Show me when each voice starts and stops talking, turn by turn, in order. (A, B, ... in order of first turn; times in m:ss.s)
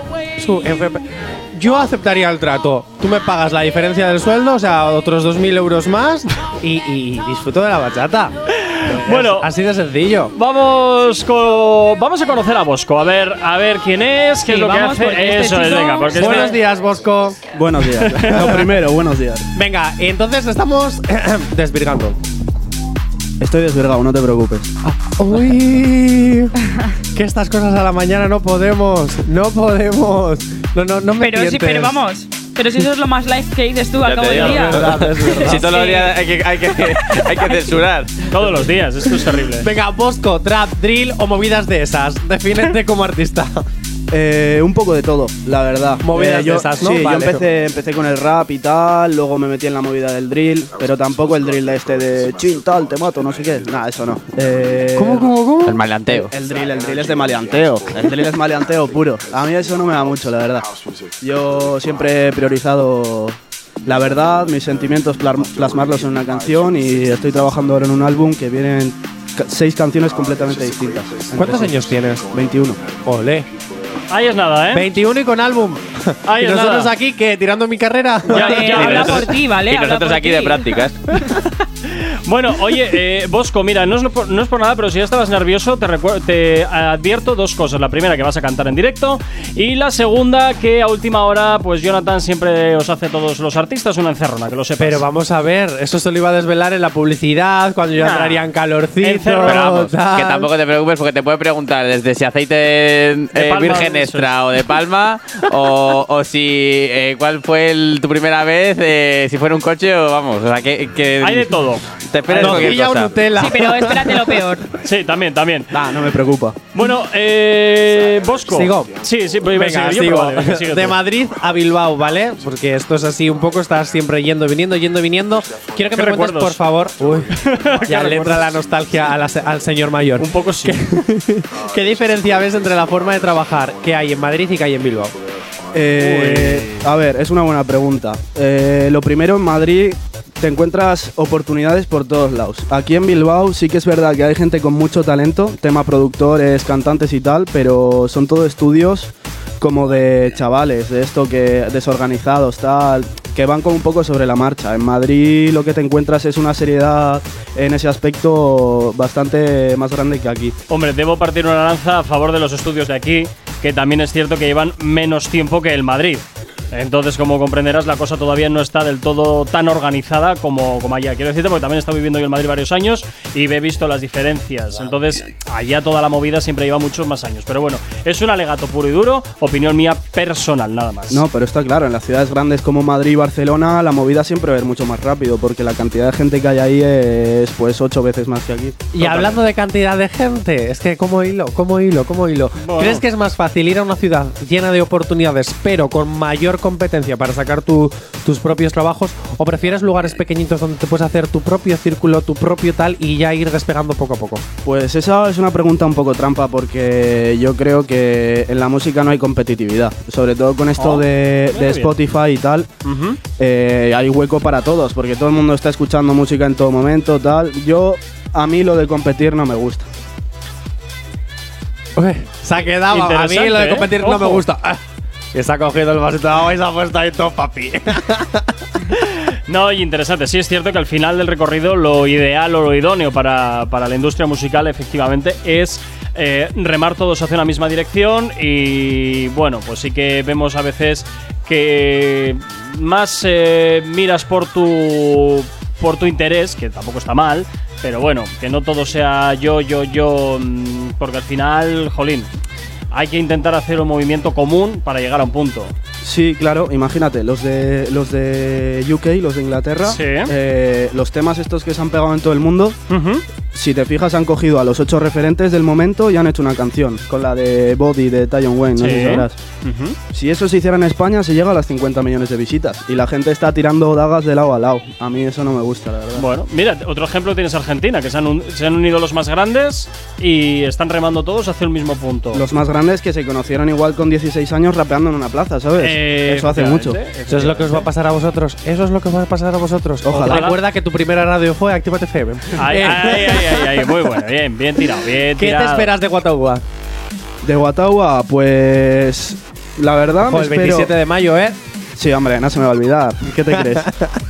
0:00.4-0:08.3 A
0:08.6-0:09.5 B
0:08.9-0:10.3 A
0:10.4-0:16.6 B
0:14.5-0:16.6 C
0:16.1-0:17.4 A
0:17.4-0:19.5 D
0:18.0-0:18.6 B
0:19.6-0:22.2 A
0:23.4-0:24.7 D
0:24.8-0:26.5 A
0:27.1-0:32.0 A
0:31.2-0:36.2 C
0:34.0-0:38.1 E
0:34.4-0:35.7 A
0:34.4-0:35.8 D
0:38.3-0:39.7 B
0:39.6-0:43.6 A
0:44.1-0:55.4 D
0:46.0-0:47.4 A
0:55.0-0:55.8 A
0:55.6-0:56.3 E
0:56.1-1:00.7 D
1:01.2-1:12.8 D
1:11.4-1:12.3 A
1:13.0-1:13.5 A
1:14.1-1:14.9 B
1:14.7-1:19.4 A
1:16.2-1:16.9 B
1:18.3-1:19.3 B
1:18.3-1:20.7 C
1:19.7-1:21.0 E
1:22.2-1:35.0 B
1:34.8-1:40.5 A
1:38.0-1:38.4 B
1:39.0-1:39.9 B
1:39.5-1:53.2 E
1:43.3-1:44.4 B
1:51.2-1:52.8 B
1:52.3-1:54.5 A
1:53.3-1:54.7 C
1:54.8-1:55.7 B
1:55.7-1:56.6 D
1:56.7-2:01.1 B
1:58.5-2:15.2 A
2:05.9-2:06.6 B
2:07.4-2:08.4 B
2:10.2-2:10.8 B
2:15.7-2:40.5 D
2:16.0-2:16.8 B
2:40.7-3:01.2 B
3:01.1-3:09.3 D
3:08.9-3:24.4 A
3:09.0-3:09.4 B
3:12.6-3:13.0 B
3:24.6-3:32.7 D
3:30.8-3:31.9 B
3:32.8-3:33.2 A
3:33.4-3:39.9 D
3:42.0-3:44.8 A
3:42.9-3:44.4 B
3:45.3-3:48.5 A
3:49.1-4:12.3 B
4:12.9-4:15.7 B
4:16.0-4:22.8 D
4:19.9-4:20.3 B
4:22.9-4:23.2 B
4:23.5-4:29.4 D
4:28.8-4:30.0 B
4:30.1-4:36.3 D
4:36.2-4:42.4 B
4:42.3-4:47.0 D
4:45.8-4:47.9 B
4:47.3-4:53.6 A
4:50.0-4:50.6 D
4:50.2-4:50.6 B
4:52.6-4:55.9 B
4:55.4-4:56.6 A
4:57.4-5:00.9 D
5:00.2-5:01.6 A
5:02.0-5:03.9 D
5:03.7-5:04.2 A